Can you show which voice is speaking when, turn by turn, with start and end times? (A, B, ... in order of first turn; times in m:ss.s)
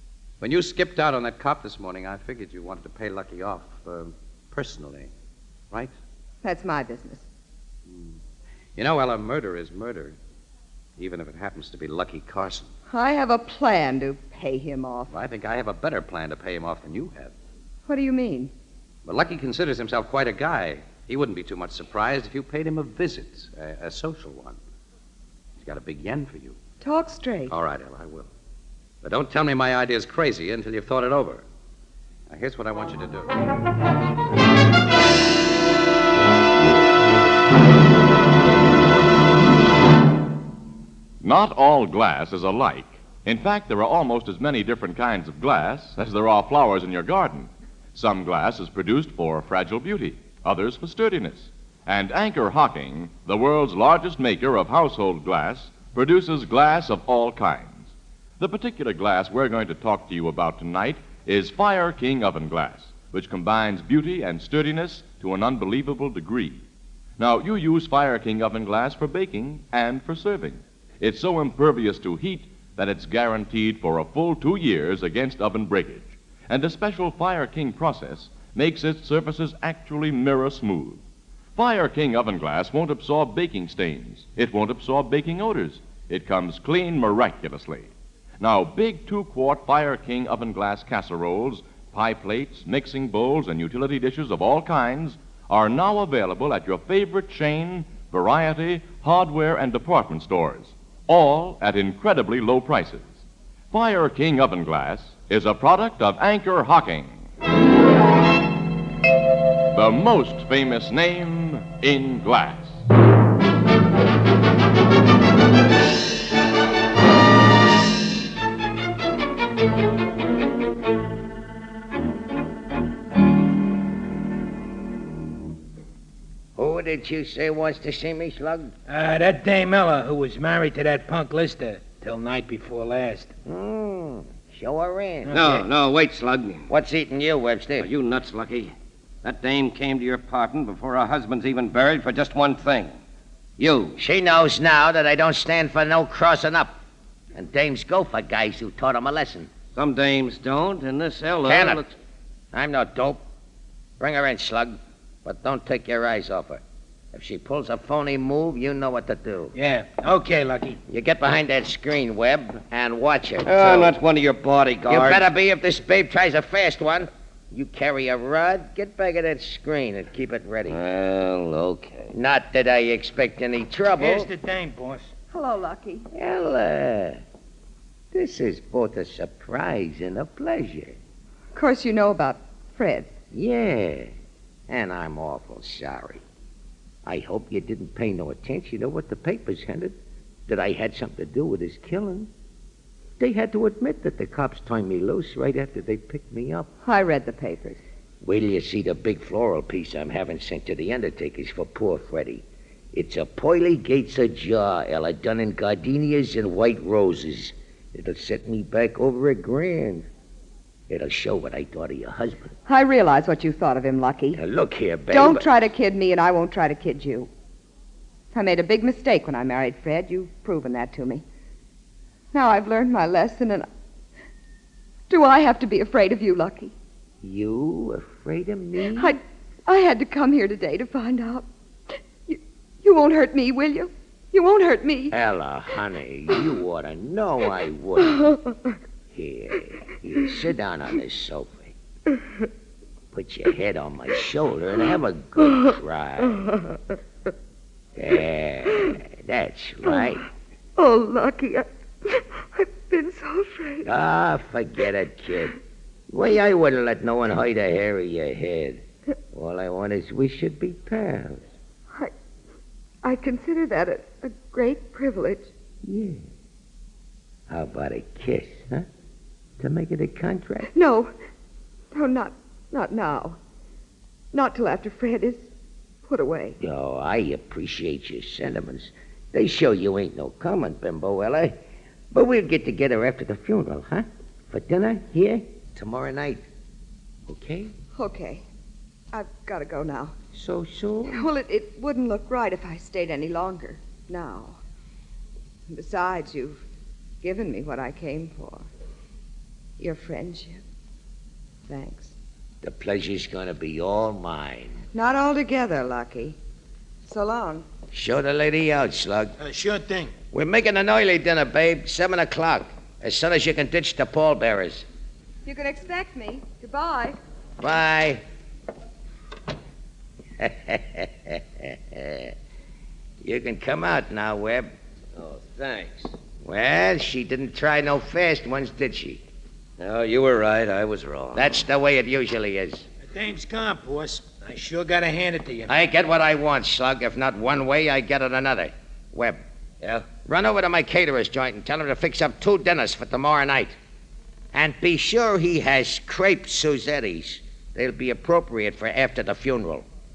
0:00.4-0:05.1 A
0:06.4-0:07.2 B
0:07.9-0:08.2 A
0:08.8-0:10.2 A
0:11.0-0:12.7 A
0:12.9-0:15.1 B
0:15.1-0:17.3 A
0:17.8-0:18.5 B
0:19.0-0:24.6 A
0:25.6-0:26.6 A
0:26.8-0:27.5 B
0:27.5-0:28.3 A
0:29.0-0:31.4 A
0:32.3-0:33.3 A
0:41.2-1:06.6 C
1:07.2-1:21.0 C
1:21.6-1:43.2 C
1:43.7-1:47.2 C
1:49.7-1:52.8 C
2:06.6-2:08.7 D
2:08.9-2:13.3 E
2:13.4-2:15.6 D
2:15.3-2:15.6 E
2:15.3-2:16.7 F
2:16.7-2:17.9 D
2:17.8-2:23.0 F
2:23.6-2:24.0 F
2:24.0-2:26.8 D
2:27.3-2:29.5 D
2:29.7-2:31.9 F
2:31.4-2:31.9 D
2:32.5-2:33.2 D
2:34.0-2:36.6 D
2:37.1-2:39.5 D
2:39.5-2:40.8 E
2:40.9-2:43.9 D
2:43.4-2:45.2 F
2:44.8-2:50.8 D
2:50.7-2:52.1 F
2:52.1-2:54.3 D
2:54.0-2:55.1 E
2:55.3-2:56.0 B
2:56.1-2:57.2 D
2:58.1-3:01.0 D
3:01.5-3:03.1 B
3:03.3-3:04.1 D
3:04.7-3:06.2 D
3:07.0-3:10.0 D
3:10.5-3:12.3 D
3:13.2-3:16.7 D
3:16.8-3:17.8 B
3:18.2-3:30.1 D
3:30.9-3:32.5 D
3:32.6-3:34.4 B
3:34.3-3:35.5 D
3:35.1-3:37.3 B
3:38.3-3:41.2 B
3:42.3-3:43.7 B
3:45.1-3:46.7 B
3:47.2-3:49.2 D
3:48.8-3:51.5 B
3:52.2-3:55.1 B
3:55.1-3:58.3 D
3:59.1-4:01.7 D
4:03.1-4:06.4 D
4:06.4-4:06.6 B
4:07.9-4:10.2 D
4:10.8-4:13.9 B
4:13.8-4:15.6 D
4:16.1-4:21.5 D
4:23.0-4:25.5 B
4:25.8-4:26.2 D
4:27.5-4:28.9 D
4:29.6-4:30.7 D
4:30.7-4:31.1 B
4:31.9-4:33.4 B
4:34.3-4:35.5 B
4:36.1-4:36.6 B
4:36.6-4:41.6 D
4:42.1-4:46.4 D
4:47.3-4:47.7 D
4:47.9-4:48.4 B
4:49.1-4:50.2 B
4:50.3-4:51.3 D
4:51.0-4:54.6 B
4:55.7-4:56.6 B
4:57.2-4:58.7 B
4:59.8-5:00.6 B
5:01.7-5:02.1 B
5:02.6-5:04.8 D
5:04.9-5:06.4 B
5:07.0-5:07.7 B
5:07.9-5:09.3 D
5:09.4-5:10.1 E
5:10.3-5:14.8 D
5:15.4-5:17.2 B
5:17.6-5:18.2 D
5:20.4-5:22.3 D
5:23.2-5:24.7 D
5:25.1-5:26.2 F
5:26.4-5:29.2 D
5:29.8-5:31.6 F
5:31.3-5:32.8 D
5:33.0-5:35.7 E
5:35.7-5:39.4 D
5:39.8-5:40.1 F
5:40.2-5:43.8 D
5:44.5-5:49.8 D